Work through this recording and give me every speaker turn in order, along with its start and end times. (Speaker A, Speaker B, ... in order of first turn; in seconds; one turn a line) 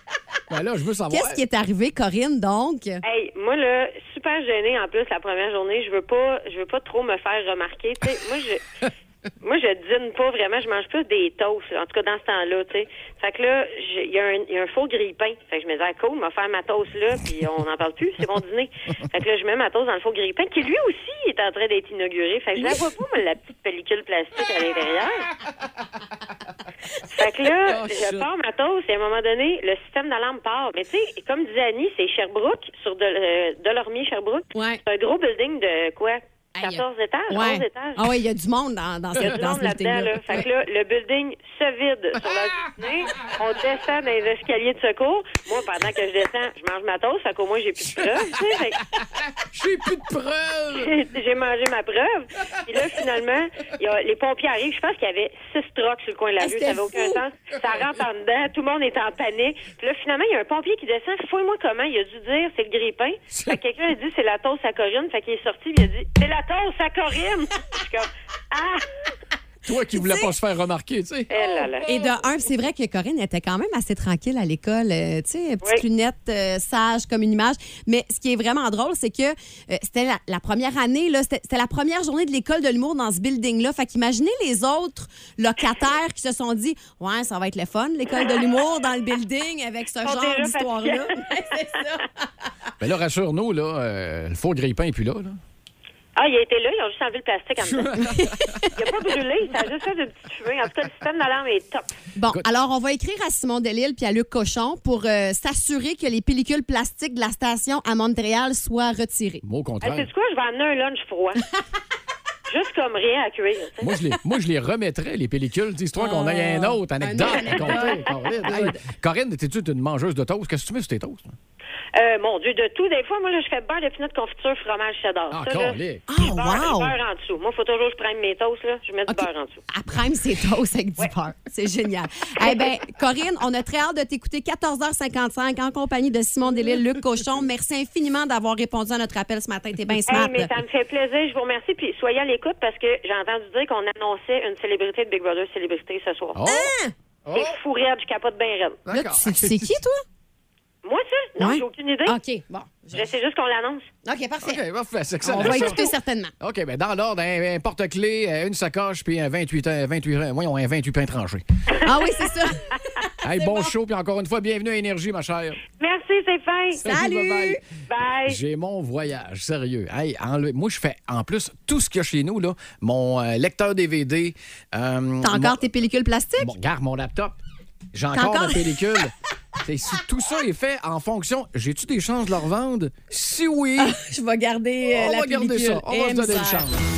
Speaker A: 0.5-1.4
Speaker B: 1.1-3.0
Speaker C: 3.0-8.6
Speaker C: 9.4-25.3
Speaker C: 27.1-38.1
Speaker A: 27.7-28.2
Speaker B: 34.5-34.8
Speaker B: 36.5-40.5
Speaker C: 39.1-48.8
Speaker A: 48.9-51.0
Speaker C: 50.8-68.8
Speaker A: 56.6-57.1
Speaker A: 63.3-63.6
Speaker A: 69.7-71.3
Speaker B: 69.9-70.3
Speaker C: 71.3-71.9
Speaker B: 71.3-92.2
Speaker C: 90.0-91.0
Speaker A: 92.8-95.4
Speaker C: 96.2-98.0
Speaker A: 97.6-98.7
Speaker B: 98.0-98.7
Speaker C: 98.8-101.9
Speaker B: 102.2-109.4
Speaker A: 109.4-110.1
Speaker C: 109.8-111.4
Speaker C: 112.5-113.9
Speaker A: 113.8-121.4
Speaker B: 116.0-118.8
Speaker C: 122.0-129.6
Speaker A: 125.3-126.1
Speaker B: 126.1-127.0
Speaker B: 129.1-140.5
Speaker C: 132.4-132.7
Speaker C: 140.1-146.4
Speaker A: 146.3-147.6
Speaker B: 146.4-146.9
Speaker C: 147.3-148.8
Speaker A: 148.9-149.8
Speaker B: 148.9-150.0
Speaker C: 150.8-152.2
Speaker B: 151.4-153.0
Speaker C: 152.9-153.9
Speaker B: 154.1-154.6
Speaker A: 154.4-161.4
Speaker B: 155.2-156.3
Speaker B: 161.8-163.7
Speaker A: 163.2-165.6
Speaker C: 165.8-166.8
Speaker B: 166.8-167.6
Speaker A: 166.8-167.6
Speaker C: 167.9-168.4
Speaker A: 168.2-175.6
Speaker B: 175.2-176.5
Speaker A: 176.4-177.4
Speaker A: 177.9-179.1
Speaker B: 178.1-178.9
Speaker A: 179.6-184.0
Speaker B: 183.8-186.7
Speaker A: 184.9-186.8